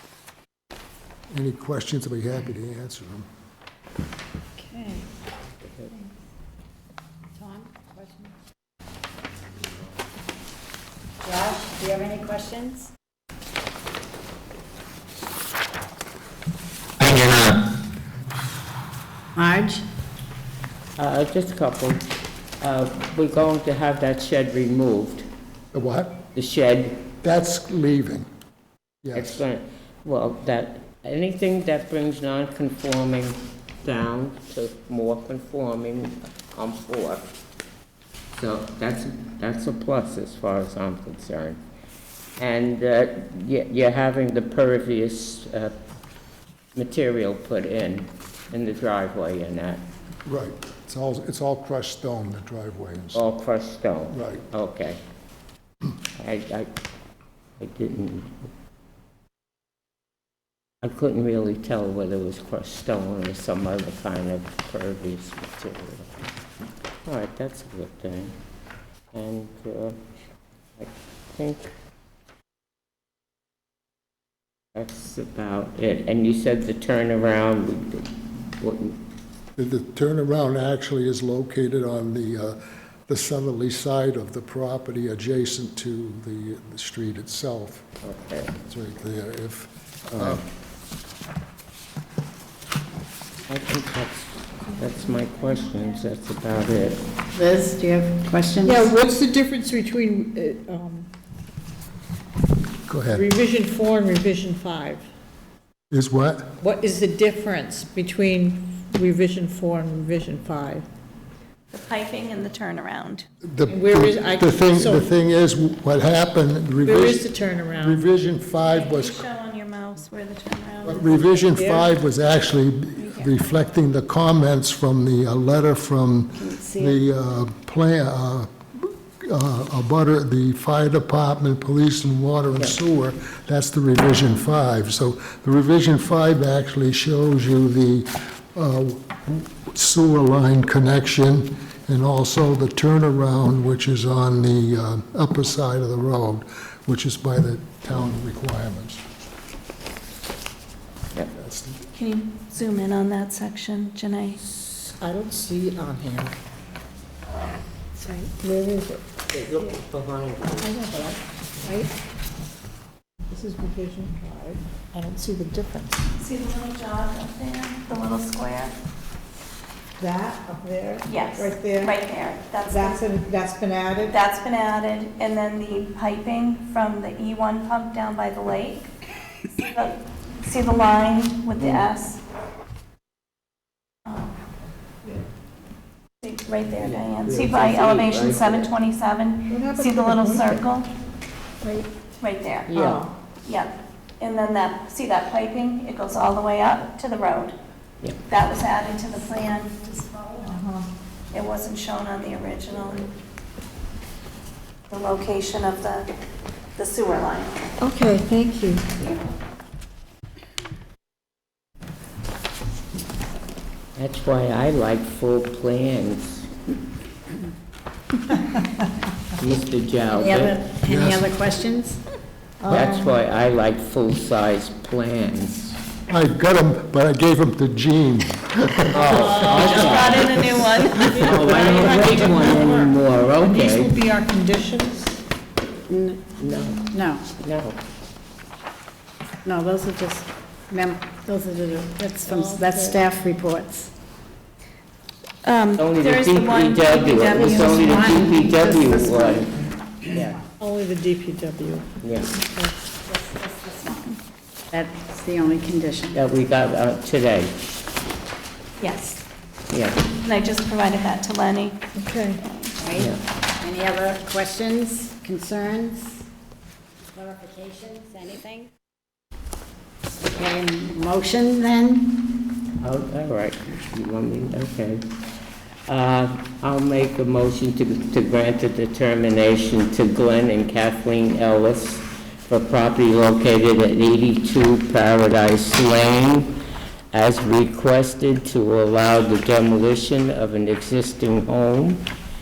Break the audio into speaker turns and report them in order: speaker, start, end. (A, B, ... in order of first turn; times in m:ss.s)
0:01.3-0:03.3 A
0:04.6-0:05.1 B
0:07.3-0:08.3 B
0:11.2-0:12.9 B
0:19.3-0:19.8 B
0:21.0-0:22.0 C
0:22.6-0:25.3 C
0:25.7-0:26.2 A
0:26.3-0:27.1 C
0:27.2-0:28.3 A
0:29.0-0:29.4 A
0:29.1-0:37.2 C
0:38.4-0:41.6 C
0:42.4-0:45.8 C
0:46.8-0:49.8 C
0:50.2-0:53.2 A
0:53.1-0:55.0 C
0:54.1-0:54.5 A
0:56.2-0:56.7 C
0:57.6-0:58.4 C
1:00.8-1:06.1 C
1:07.0-1:08.4 C
1:09.1-1:10.0 C
1:10.8-1:11.7 C
1:14.7-1:19.0 C
1:19.6-1:27.9 A
1:28.0-1:28.6 C
1:28.6-1:30.4 A
1:30.2-1:30.4 C
1:33.5-1:37.0 C
1:37.3-1:38.8 B
1:38.6-1:41.1 D
1:42.9-1:43.3 A
1:43.1-1:45.0 D
1:45.9-1:46.6 A
1:46.6-1:50.8 D
1:51.7-1:53.3 E
1:53.4-1:59.2 A
1:53.7-1:55.1 D
1:56.8-1:58.0 D
1:58.6-2:01.3 E
2:00.8-2:29.0 A
2:01.5-2:01.9 D
2:03.0-2:03.3 E
2:06.3-2:07.0 B
2:31.3-2:31.9 A
2:31.9-2:34.4 E
2:34.5-2:36.3 D
2:38.1-2:39.0 D
2:39.3-2:40.8 C
2:40.6-2:41.9 D
2:43.3-2:46.0 D
2:46.1-2:48.7 E
2:50.0-2:51.9 D
2:51.0-2:53.1 E
2:52.7-2:54.1 D
2:54.1-2:58.9 E
2:59.6-3:02.2 E
3:01.6-3:01.8 C
3:04.1-3:04.4 E
3:06.2-3:10.9 E
3:06.8-3:08.7 C
3:09.5-3:10.6 D
3:12.2-3:12.8 E
3:12.7-3:13.1 C
3:12.8-3:13.1 D
3:13.4-3:17.6 E
3:18.3-3:19.8 E
3:20.0-3:20.5 B
3:20.5-3:20.9 D
3:21.3-3:23.1 E
3:24.9-3:26.1 E
3:26.8-3:27.7 E
3:27.8-3:29.0 D
3:34.0-3:36.5 C
3:39.4-3:40.6 C
3:40.1-3:42.0 B
3:40.9-3:41.3 A
3:42.6-3:43.0 D
3:42.7-3:42.9 A
3:42.7-3:45.8 C
3:46.1-3:49.7 A
3:48.9-3:50.5 C
3:49.1-3:50.0 D
3:49.2-3:51.8 E
3:50.9-3:55.2 D
3:51.2-3:54.0 C
3:55.9-3:56.3 B
3:56.4-3:57.8 C
3:56.9-3:57.3 B
3:59.4-4:03.9 B
4:02.2-4:03.0 D
4:05.4-4:07.9 E
4:05.8-4:10.4 C
4:07.2-4:09.5 B
4:10.6-4:11.9 D
4:12.0-4:12.4 C
4:12.9-4:14.2 B
4:14.7-4:16.2 B
4:16.1-4:17.5 C
4:18.8-4:19.2 E
4:19.7-4:20.1 C
4:20.1-4:21.8 E
4:21.9-4:22.4 D
4:22.8-4:26.2 B
4:22.9-4:23.2 C
4:27.1-4:28.7 B
4:30.3-4:32.4 B
4:32.8-4:35.0 C
4:35.9-4:46.6 C
4:47.1-4:52.1 C